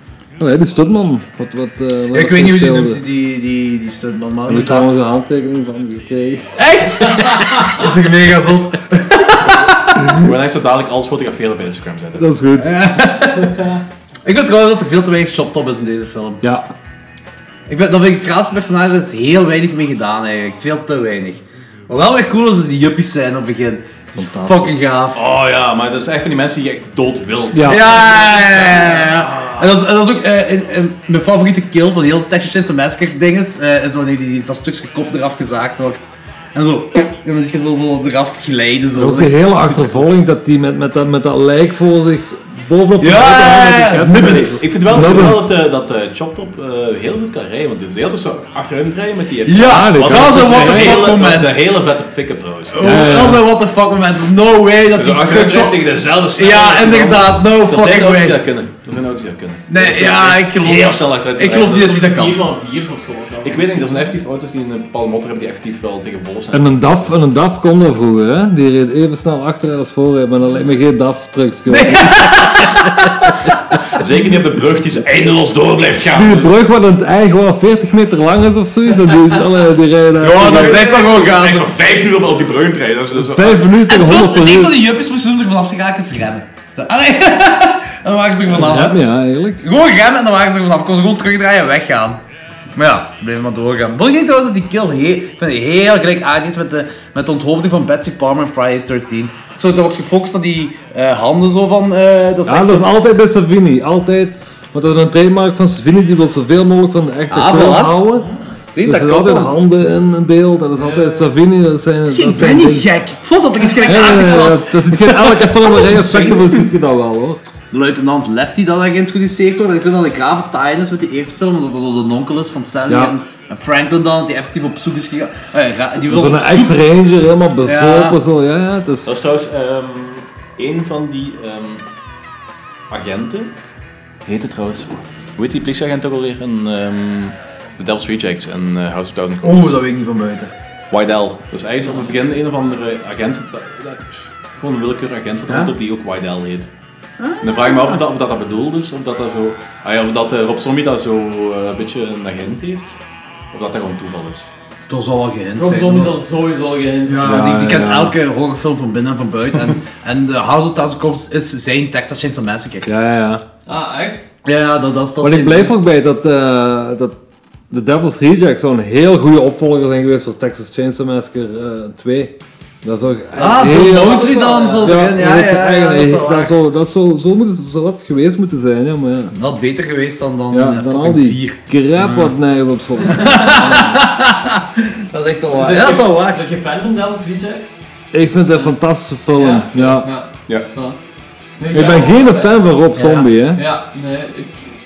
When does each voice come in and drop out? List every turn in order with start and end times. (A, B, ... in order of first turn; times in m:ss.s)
0:00.4-0:03.0 A
0:02.1-0:05.0 B
0:04.5-0:06.6 A
0:06.6-0:10.1 B
0:07.1-0:07.8 C
0:10.1-0:12.3 D
0:12.2-0:12.8 A
0:12.6-0:13.6 B
0:14.2-0:16.4 B
0:16.4-0:16.7 A
0:17.7-0:25.2 B
0:24.2-0:24.7 A
0:25.1-0:29.7 D
0:27.5-0:27.9 A
0:27.6-0:40.1 B
0:39.0-0:45.5 A
0:43.0-0:44.6 B
0:44.1-0:53.3 D
0:49.4-0:51.6 B
0:49.6-0:51.0 A
0:52.7-0:58.4 B
0:52.8-0:53.4 A
0:54.9-1:02.1 D
0:59.7-1:02.5 B
1:01.7-1:04.0 C
1:03.4-1:07.1 D
1:06.5-1:13.1 A
1:11.7-1:13.5 B
1:13.9-1:16.6 D
1:16.1-1:20.9 A
1:20.2-1:21.8 B
1:20.3-1:23.7 D
1:23.1-1:24.8 A
1:23.8-1:29.0 B
1:28.6-1:29.6 A
1:29.6-1:32.2 B
1:32.7-1:43.1 B
1:42.4-1:48.3 A
1:47.3-1:48.1 B
1:48.7-1:49.5 B
1:48.8-1:52.9 A
1:50.8-1:51.3 C
1:52.1-1:56.2 B
1:53.8-1:57.4 A
1:55.8-1:56.7 D
1:57.7-2:06.8 B
2:02.9-2:03.2 A
2:06.1-2:09.2 A
2:07.6-2:08.2 B
2:09.0-2:11.8 D
2:12.9-2:13.6 D
2:14.2-2:19.8 D
2:19.4-2:20.5 B
2:20.9-2:26.7 D
2:25.5-2:25.7 B
2:27.2-2:28.0 B
2:27.4-2:33.0 D
2:33.5-2:34.5 D
2:34.9-2:36.2 B
2:35.6-2:37.4 C
2:37.0-2:42.9 B
2:37.2-2:38.2 A
2:42.8-2:43.4 A
2:43.6-2:44.2 C
2:44.4-2:45.7 B
2:45.2-2:47.2 A
2:47.7-2:59.3 A
2:53.3-2:56.5 B
2:53.9-2:54.9 C
2:59.3-3:02.3 B
3:00.5-3:04.0 A
3:03.1-3:06.5 B
3:03.1-3:03.6 C
3:05.5-3:07.8 C
3:08.1-3:10.1 A
3:09.3-3:11.0 C
3:11.6-3:12.6 C
3:11.7-3:13.6 A
3:12.9-3:13.3 B
3:13.5-3:14.6 C